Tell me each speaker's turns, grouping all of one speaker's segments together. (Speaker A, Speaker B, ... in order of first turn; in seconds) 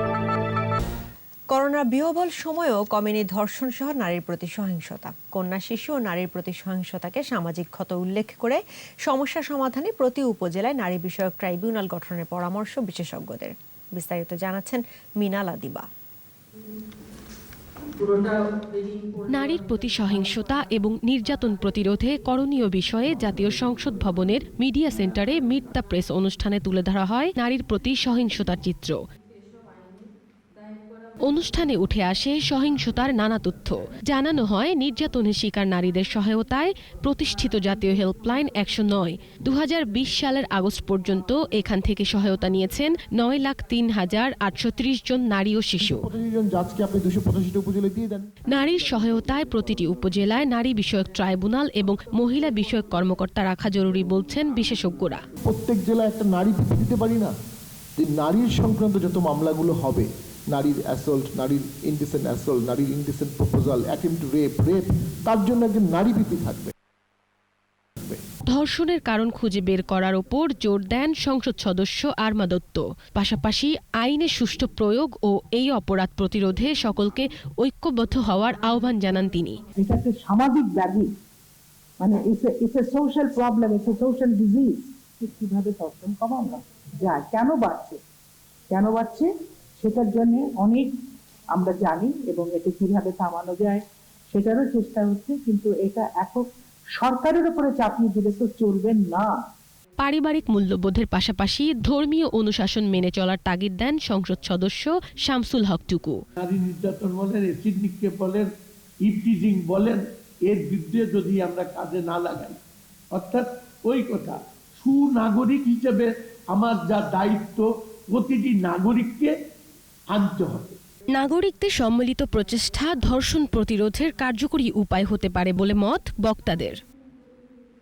Speaker A: 1.5-15.8
Speaker B: 19.3-29.0, 31.2-46.0, 48.5-55.2, 68.5-79.6, 100.0-106.2, 121.1-126.8
Speaker C: 45.8-48.3, 55.4-57.3, 58.0-66.7
Speaker D: 79.8-81.1, 82.0-88.0, 88.7-90.9, 91.5-99.3
Speaker E: 106.4-108.5, 109.0-112.6, 113.1-119.3, 120.1-120.7